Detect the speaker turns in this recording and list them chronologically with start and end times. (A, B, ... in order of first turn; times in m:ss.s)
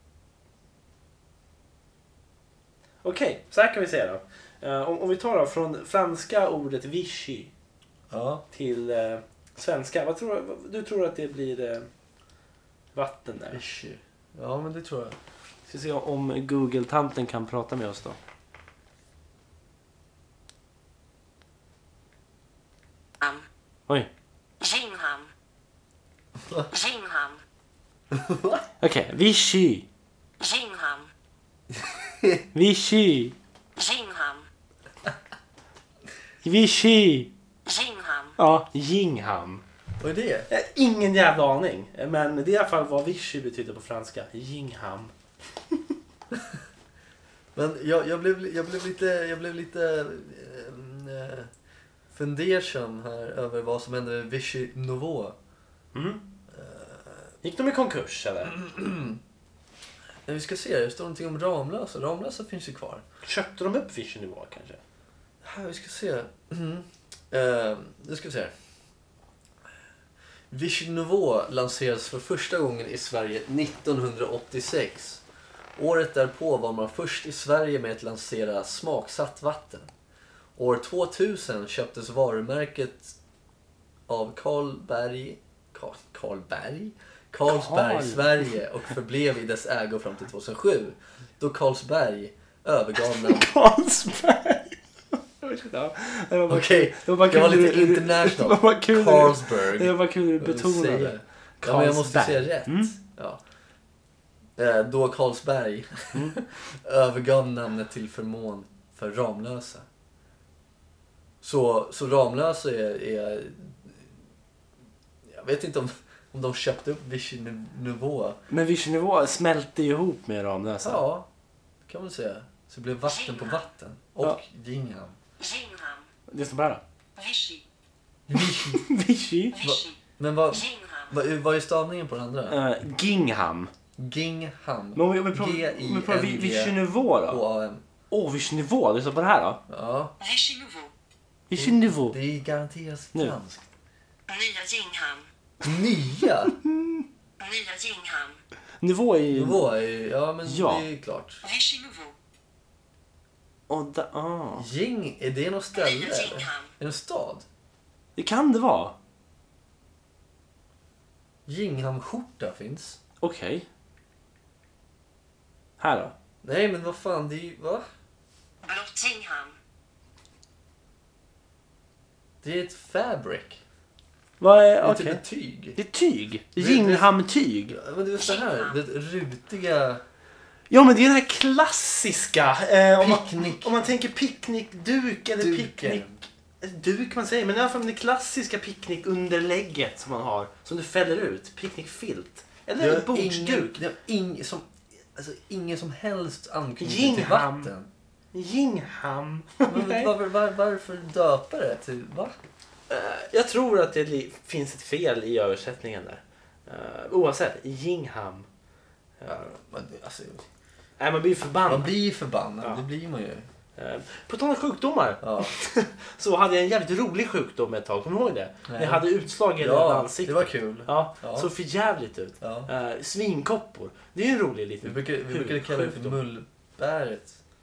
0:03.0-0:07.5 A
0:08.1-0:08.4 B
0:08.5-0:11.9 A
0:12.9-0:13.6 A
0:13.5-0:15.2 B
0:15.7-0:18.2 A
0:23.2-0:23.5 C
0:24.6-0:25.3 C
0:26.4-0:26.7 B
0:26.7-0:27.4 C
0:28.1-0:28.6 B
0:28.8-0:29.8 A
0:30.4-0:31.1 C
0:31.8-0:32.4 B
0:32.5-0:33.3 A
0:33.8-0:34.5 C
0:36.4-0:37.3 A
0:37.6-0:38.4 C
0:38.4-0:39.6 A
0:40.0-0:40.5 B
0:40.5-0:45.1 A
0:46.3-0:46.6 B
0:47.5-0:51.5 B
0:52.1-0:55.4 B
0:55.9-0:56.2 A
0:56.5-0:57.3 B
0:57.4-0:58.6 A
0:58.5-0:59.2 B
1:00.2-1:03.0 B
1:03.2-1:04.8 A
1:05.4-1:08.5 B
1:10.5-1:15.2 B
1:15.8-1:19.9 B
1:20.6-1:23.2 B
1:24.1-1:33.5 B
1:27.4-1:28.6 A
1:33.0-1:42.9 A
1:36.5-1:43.4 B
1:44.6-1:49.8 B
1:51.4-1:54.2 B
1:55.2-1:58.4 B
1:58.5-2:01.0 A
2:00.8-2:01.3 B
2:01.8-2:05.2 B
2:03.1-2:03.6 C
2:05.4-2:06.1 C
2:06.3-2:06.8 A
2:07.2-2:07.6 C
2:08.3-2:08.8 B
2:08.3-2:09.6 A
2:09.6-2:09.9 C
2:09.6-2:12.6 B
2:10.5-2:11.1 C
2:12.5-2:13.7 A
2:14.0-2:17.8 B
2:14.9-2:17.4 A
2:18.1-2:19.6 A
2:19.7-2:20.1 B
2:20.2-2:20.9 C
2:21.5-2:22.2 A
2:21.6-2:23.6 B
2:24.3-2:25.3 C
2:25.6-2:26.5 B
2:26.6-2:27.0 A
2:27.4-2:28.4 C
2:28.8-2:29.6 A
2:29.3-2:31.4 B
2:30.4-2:30.8 A
2:31.4-2:32.1 C
2:33.7-2:34.7 A
2:34.6-2:37.4 B
2:35.8-2:36.7 C
2:38.2-2:38.9 A
2:41.5-2:43.0 B
2:43.2-2:43.6 A
2:45.8-2:46.1 A
2:46.4-2:47.8 B
2:48.6-2:49.6 C
2:52.4-2:53.6 B
2:54.4-2:55.2 A
2:54.8-2:55.8 B
2:55.8-2:57.8 A
2:56.6-2:57.1 B
2:57.7-3:00.0 B
2:58.2-2:58.8 C
3:00.7-3:13.8 A
3:03.0-3:03.8 B
3:05.4-3:06.2 B
3:12.8-3:17.9 B
3:16.8-3:17.7 A
3:18.3-3:20.1 A
3:19.7-3:22.4 B
3:22.9-3:28.5 A
3:29.2-3:29.5 A
3:29.2-3:30.4 B
3:31.0-3:31.9 A
3:31.7-3:33.4 B
3:33.8-3:46.2 A
3:35.2-3:35.5 B
3:38.7-3:41.5 B
3:42.4-3:42.7 B
3:44.8-3:47.4 B